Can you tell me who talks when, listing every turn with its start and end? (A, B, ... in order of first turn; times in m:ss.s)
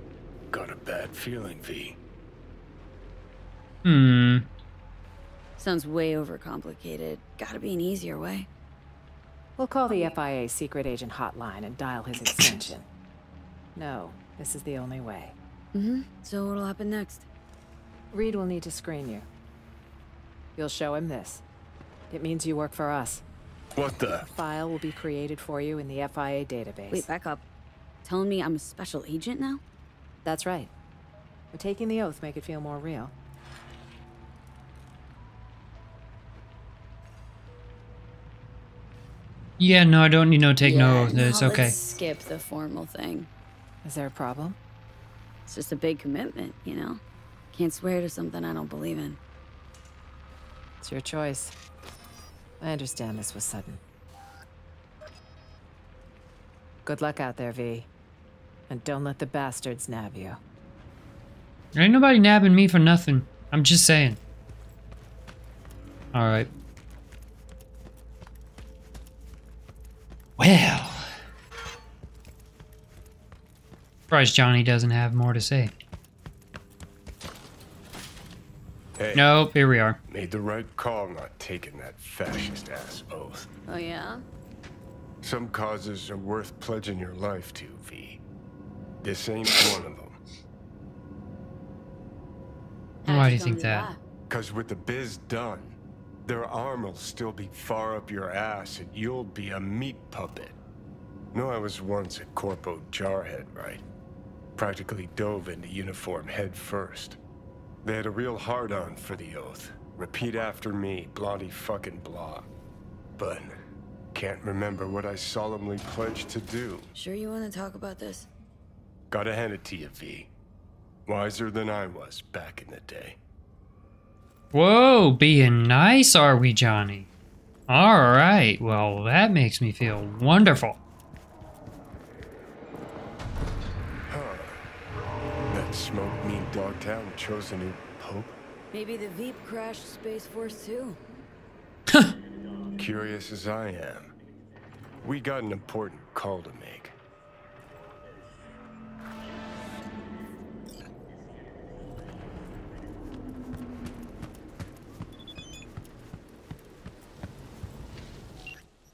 0:00.5-0:02.0 A
0:03.8-0:04.5 B
0:05.6-0:08.5 C
0:09.6-0:12.8 D
0:13.8-0:15.3 D
0:15.7-0:17.3 C
0:18.1-0:19.3 D
0:20.6-0:21.4 D
0:22.1-0:23.2 D
0:23.7-0:24.3 A
0:24.3-0:27.1 D
0:26.9-0:27.4 C
0:28.0-0:29.6 C
0:30.2-0:30.7 D
0:31.5-0:33.1 D
0:39.6-0:41.7 B
0:40.6-0:43.3 C
0:43.8-0:44.6 D
0:45.5-0:47.0 C
0:47.5-0:49.2 C
0:50.8-0:51.5 D
0:52.6-0:53.8 D
0:56.8-0:57.9 D
0:58.7-1:00.4 D
1:01.7-1:04.2 B
1:06.1-1:06.5 B
1:10.4-1:11.1 B
1:14.1-1:15.7 B
1:19.0-1:19.4 A
1:19.1-1:20.0 B
1:20.1-1:23.5 A
1:23.7-1:24.2 C
1:25.2-1:28.2 A
1:29.0-1:30.2 A
1:33.0-1:34.0 C
1:33.1-1:33.9 B
1:34.3-1:40.6 A
1:41.3-1:43.8 A
1:44.6-1:47.2 A
1:47.8-1:52.5 A
1:53.2-1:53.6 A
1:54.1-1:56.9 A
1:56.9-1:58.3 C
1:59.1-2:00.3 A
2:01.0-2:03.2 A
2:04.5-2:07.1 B
2:07.7-2:10.8 B
2:14.1-2:14.6 A
2:15.5-2:18.4 A
2:18.7-2:21.0 C
2:22.8-2:24.1 A
2:25.0-2:26.9 A